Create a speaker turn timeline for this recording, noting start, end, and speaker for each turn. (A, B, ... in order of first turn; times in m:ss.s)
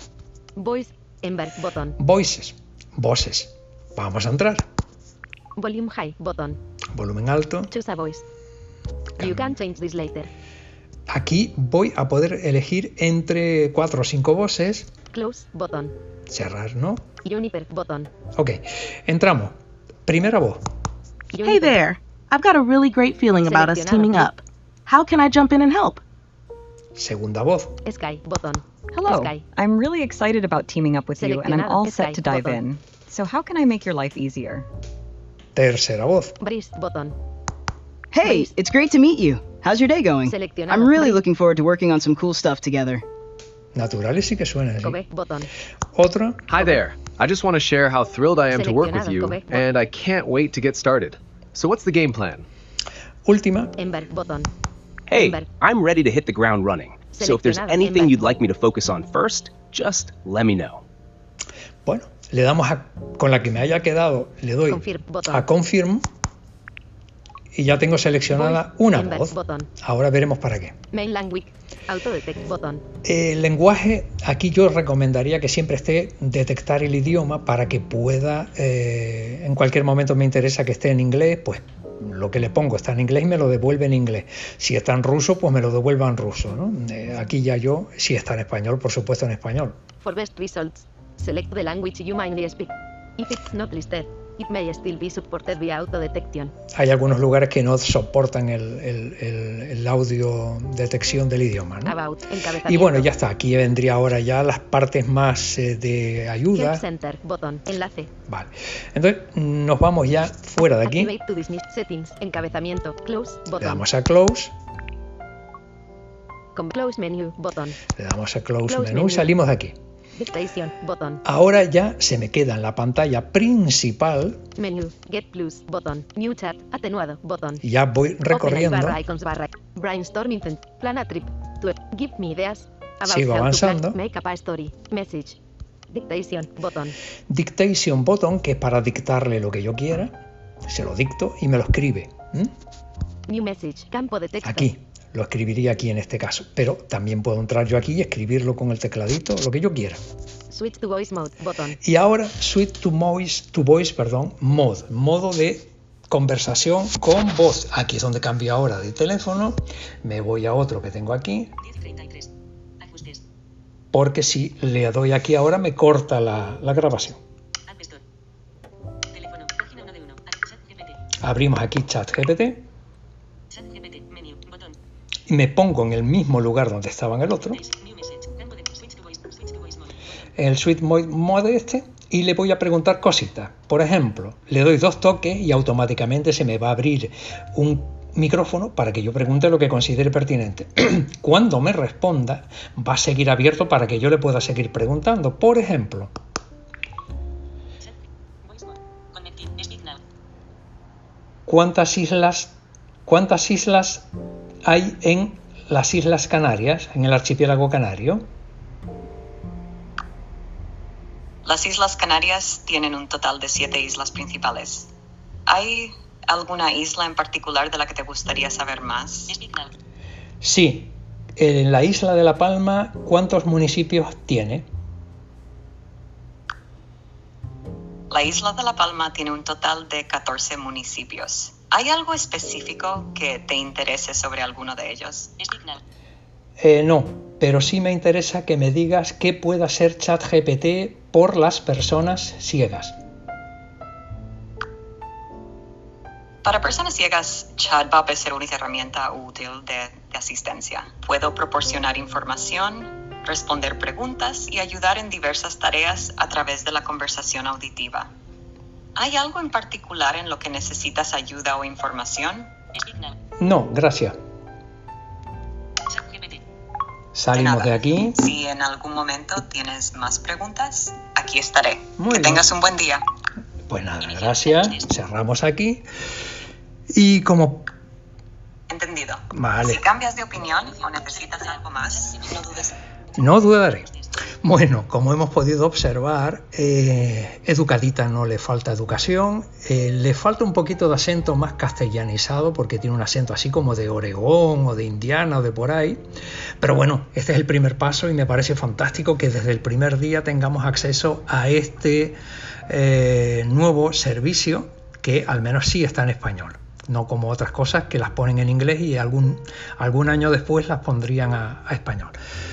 0:00.6-0:02.0 A
0:02.0-0:04.6 B
0:05.6-0:06.6 A
0:06.9-0:07.7 B
0:07.7-0:08.2 A
0:09.2-0:09.6 B
0:09.2-0:10.3 A
0:11.1-0:14.9 B
0:15.1-0:15.9 A
0:16.3-0:17.0 B
0:17.2-0:18.1 A
0:18.4-0:19.5 B
0:20.0-0:20.6 B
0:21.3-0:21.7 A
0:21.4-0:26.0 C
0:23.4-0:24.3 A
0:27.0-0:27.8 B
0:27.8-0:29.4 A
0:28.9-0:34.6 D
0:31.2-0:32.6 A
0:35.5-0:36.4 B
0:36.4-0:37.2 A
0:38.1-0:43.0 E
0:38.2-0:38.5 A
0:40.2-0:41.2 A
0:43.7-0:45.0 B
0:44.8-0:45.5 A
0:45.9-0:46.5 B
0:46.5-0:52.5 F
0:48.5-0:49.6 A
0:53.2-0:53.7 B
0:53.8-0:54.5 A
0:55.1-1:00.8 G
0:55.1-0:55.4 A
0:57.1-0:58.4 A
1:01.8-1:06.0 B
1:04.7-1:05.4 A
1:07.5-1:10.7 B
1:08.3-1:09.7 A
1:10.9-1:12.8 A
1:13.0-1:29.8 B
1:30.0-1:36.5 A
1:36.7-1:41.9 B
1:41.8-1:43.1 A
1:42.6-1:46.8 B
1:46.5-1:48.1 A
1:48.3-1:51.1 B
1:50.8-1:53.8 A
1:53.6-1:54.5 B
1:56.5-1:57.8 A
1:58.0-1:59.8 B
1:58.7-1:59.3 A
2:00.2-2:01.2 A
2:01.2-2:04.4 B
2:04.6-2:07.6 A
2:07.6-2:09.0 B
2:08.3-2:16.9 A
2:13.0-2:14.0 B
2:17.3-2:20.2 B
2:20.7-2:22.5 B
2:23.3-2:24.7 A
2:24.4-2:30.0 B
2:30.5-2:31.8 A
2:31.8-2:41.5 B
2:41.8-2:42.3 H
2:42.9-2:43.1 H
2:43.9-2:47.2 B
2:49.2-2:50.9 H
2:51.2-2:52.6 B
2:53.6-2:54.6 H
2:55.3-2:57.6 B
2:58.0-2:59.6 H
3:00.4-3:16.1 B
3:19.1-3:19.9 H
3:21.5-3:24.1 B
3:24.6-3:28.2 B
3:31.4-3:34.9 H
3:35.5-3:39.7 H
3:40.4-3:44.7 B
3:48.1-3:55.8 H
3:56.6-4:03.0 B
4:06.4-4:18.1 H
4:19.0-4:23.1 H
4:23.4-4:24.2 B
4:25.9-4:26.3 H
4:27.1-4:28.2 B
4:27.3-4:33.0 H
4:32.0-4:32.4 B
4:33.7-4:35.8 B
4:34.3-4:34.8 H
4:36.9-4:37.7 B
4:38.7-4:42.7 H
4:39.3-4:39.8 B
4:43.1-4:43.9 B
4:44.4-4:56.0 B
4:56.6-5:12.2 B